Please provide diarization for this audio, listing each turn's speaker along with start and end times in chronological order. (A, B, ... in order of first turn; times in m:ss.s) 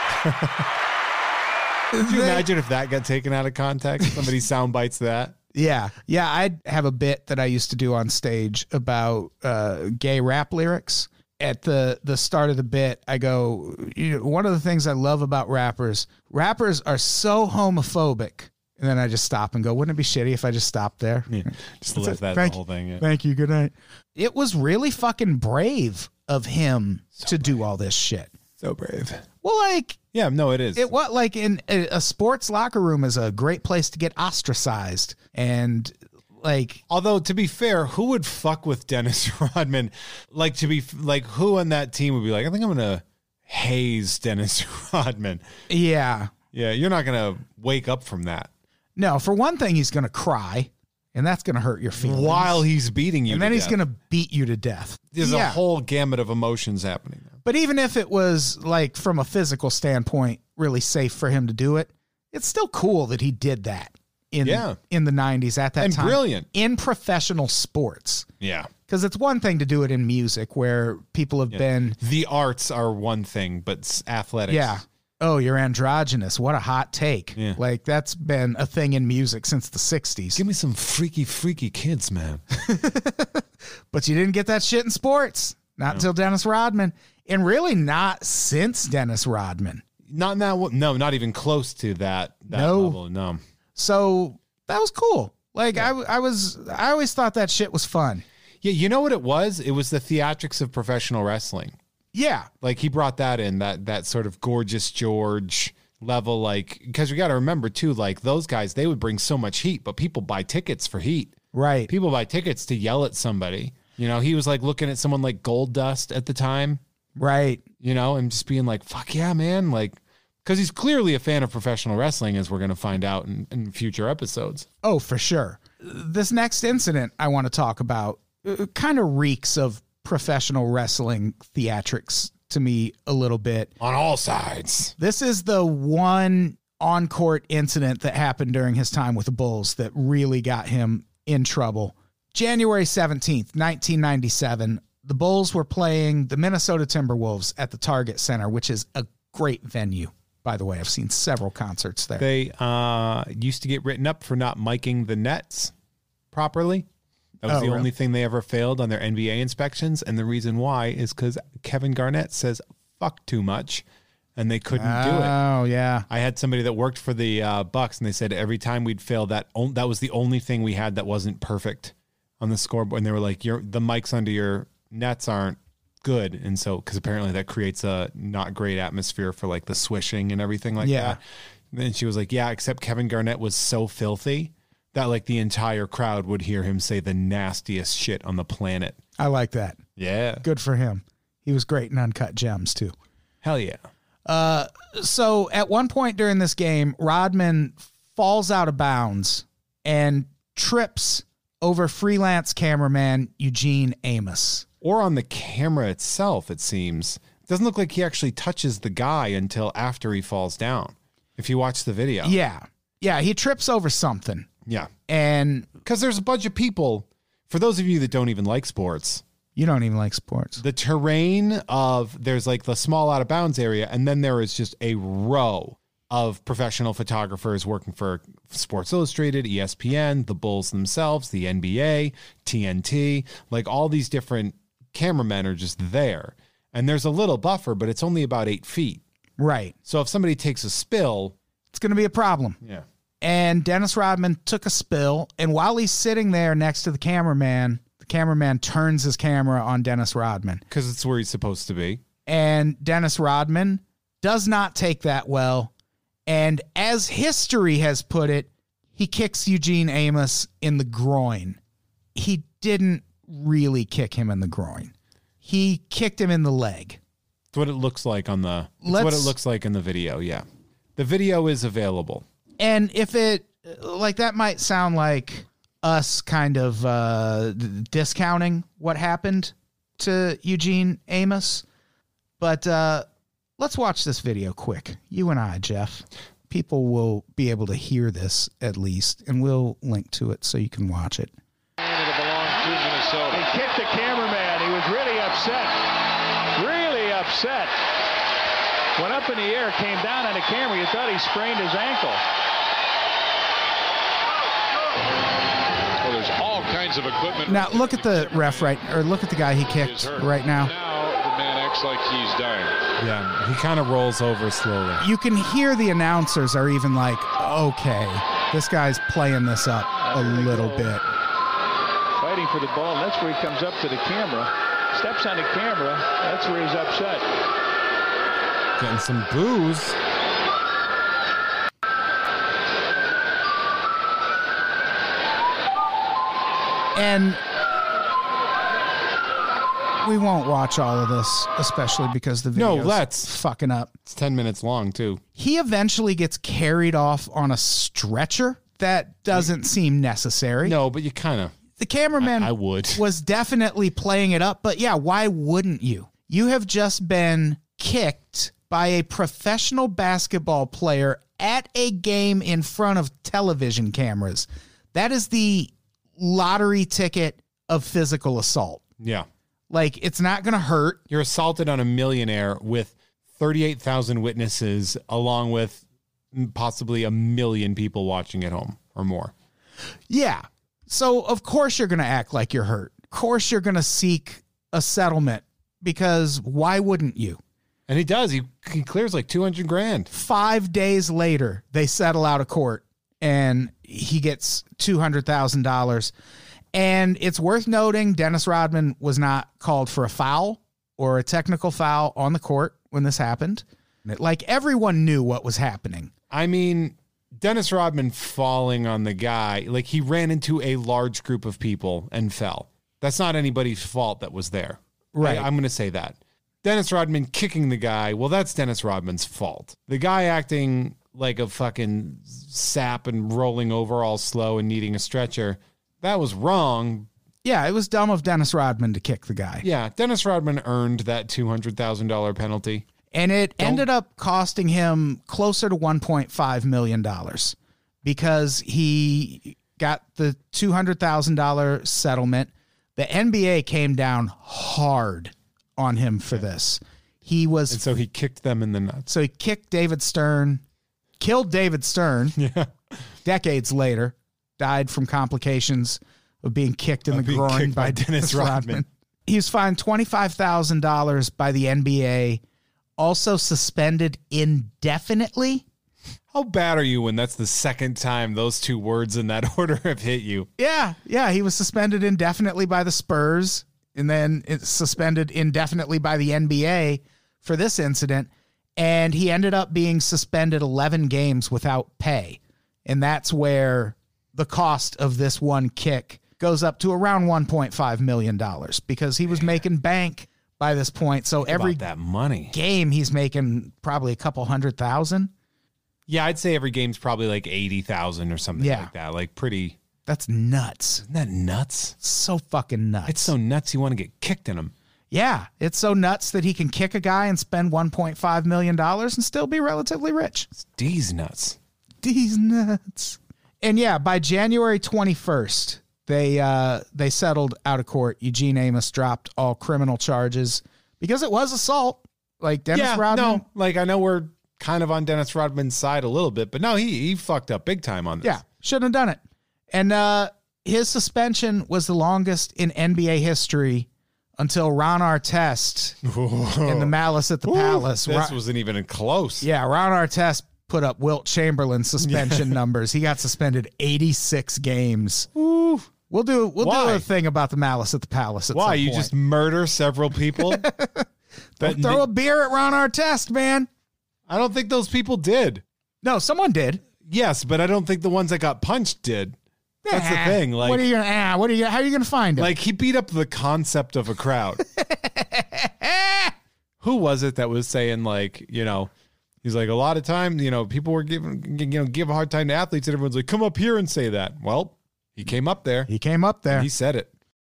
0:00.2-0:00.7 A
0:01.9-0:02.4 B
0:02.0-0:05.4 A
0:05.5-0:28.3 B
0:21.3-0:23.0 A
0:27.2-0:27.6 A
0:28.6-0:29.2 A
0:29.4-0:30.0 B
0:30.1-0:30.9 A
0:30.8-0:36.8 B
0:36.9-0:45.4 A
0:45.7-0:46.3 B
0:46.5-0:48.5 A
0:49.0-0:52.6 B
0:52.0-0:53.8 A
0:53.3-0:55.6 B
0:55.1-0:57.4 A
0:57.4-1:08.3 B
1:04.4-1:04.8 A
1:05.8-1:06.5 A
1:08.4-1:08.7 A
1:08.9-1:12.0 B
1:11.5-1:14.8 A
1:14.5-1:20.4 B
1:20.4-1:22.4 A
1:22.6-1:29.8 B
1:30.0-1:33.4 A
1:32.5-1:33.0 B
1:33.8-1:38.2 B
1:38.6-1:41.8 A
1:42.1-1:42.5 B
1:42.6-1:51.4 A
1:51.5-1:51.9 B
1:51.9-1:56.8 A
1:57.2-1:57.6 B
1:57.8-2:04.7 A
2:04.8-2:13.7 B
2:13.8-2:14.9 A
2:15.0-2:32.3 B
2:32.2-2:35.7 A
2:36.3-2:36.9 A
2:37.4-2:43.8 A
2:37.5-2:37.9 B
2:44.4-2:45.4 A
2:44.8-2:46.1 B
2:46.1-3:01.2 A
3:00.8-3:01.2 B
3:01.7-3:09.0 A
3:09.2-3:09.8 B
3:10.0-3:10.4 A
3:10.4-3:12.9 B
3:13.4-3:13.8 A
3:14.3-3:24.7 B
3:24.8-3:32.4 A
3:32.2-3:34.5 B
3:34.7-3:34.9 A
3:35.1-3:35.7 B
3:35.8-3:39.2 A
3:39.6-3:40.6 B
3:40.6-3:59.0 A
3:59.4-3:59.8 B
3:59.9-4:01.4 A
4:01.7-4:02.6 B
4:03.2-4:10.6 B
4:10.7-4:12.0 A
4:12.3-4:15.7 B
4:16.3-4:21.6 B
4:22.2-4:27.0 B
4:27.5-4:30.4 A
4:28.8-4:29.3 B
4:31.0-4:32.2 A
4:32.6-4:41.6 B
4:42.4-4:43.1 B
4:43.6-4:51.3 B
4:51.8-4:53.5 C
4:53.3-4:55.8 D
4:56.6-4:57.7 D
4:59.0-5:02.2 D
5:06.0-5:08.8 C
5:07.5-5:10.7 B
5:09.6-5:12.8 C
5:13.0-5:15.0 A
5:15.0-5:21.0 B
5:20.0-5:21.0 D
5:22.2-5:27.3 D
5:28.8-5:30.0 A
5:37.0-5:37.4 B
5:40.0-5:43.9 B
5:42.6-5:43.3 A
5:44.0-5:45.2 A
5:45.4-5:50.8 B
5:50.6-5:51.6 A
5:51.8-6:08.8 B
5:52.2-5:53.0 A
6:09.0-6:09.3 A
6:09.7-6:11.0 B
6:11.1-6:19.3 A
6:20.1-6:27.4 B
6:27.9-6:30.1 A
6:30.1-6:36.1 B
6:36.7-6:46.1 B
6:46.3-7:07.1 A
6:55.1-6:55.5 B
7:07.4-7:09.6 B
7:09.6-7:12.9 A
7:13.1-7:27.8 B
7:13.6-7:13.9 A
7:27.7-7:29.1 A
7:29.1-7:30.6 B
7:31.2-7:32.4 B
7:32.4-7:33.0 A
7:33.2-7:42.4 B
7:37.1-7:38.8 A
7:43.0-7:45.6 B
7:46.3-7:50.5 A
7:50.6-8:11.8 B
8:11.4-8:12.6 A
8:12.5-8:15.3 B
8:16.1-8:19.8 A
8:18.6-8:18.9 B
8:20.1-8:21.0 B
8:21.0-8:22.0 A
8:22.0-8:23.3 B
8:23.1-8:24.7 A
8:25.1-8:30.5 B
8:30.6-8:31.6 A
8:32.0-8:43.4 B
8:42.7-8:48.4 A
8:48.2-8:49.2 B
8:49.7-8:56.0 B
8:56.0-8:59.5 A
8:56.6-8:58.4 B
8:59.4-9:05.3 B
9:02.0-9:02.6 A
9:05.4-9:05.9 A
9:06.1-9:09.1 B
9:06.6-9:07.1 A
9:08.5-9:10.7 A
9:10.4-9:11.1 B
9:11.6-9:13.7 B
9:11.6-9:12.0 A
9:14.3-9:15.6 A
9:16.0-9:16.8 B
9:17.0-9:19.4 A
9:19.8-9:22.5 B
9:19.9-9:20.9 A
9:22.4-9:24.6 A
9:24.8-9:26.3 B
9:26.8-9:28.9 A
9:29.4-9:35.9 A
9:35.9-9:36.7 B
9:36.5-9:37.1 A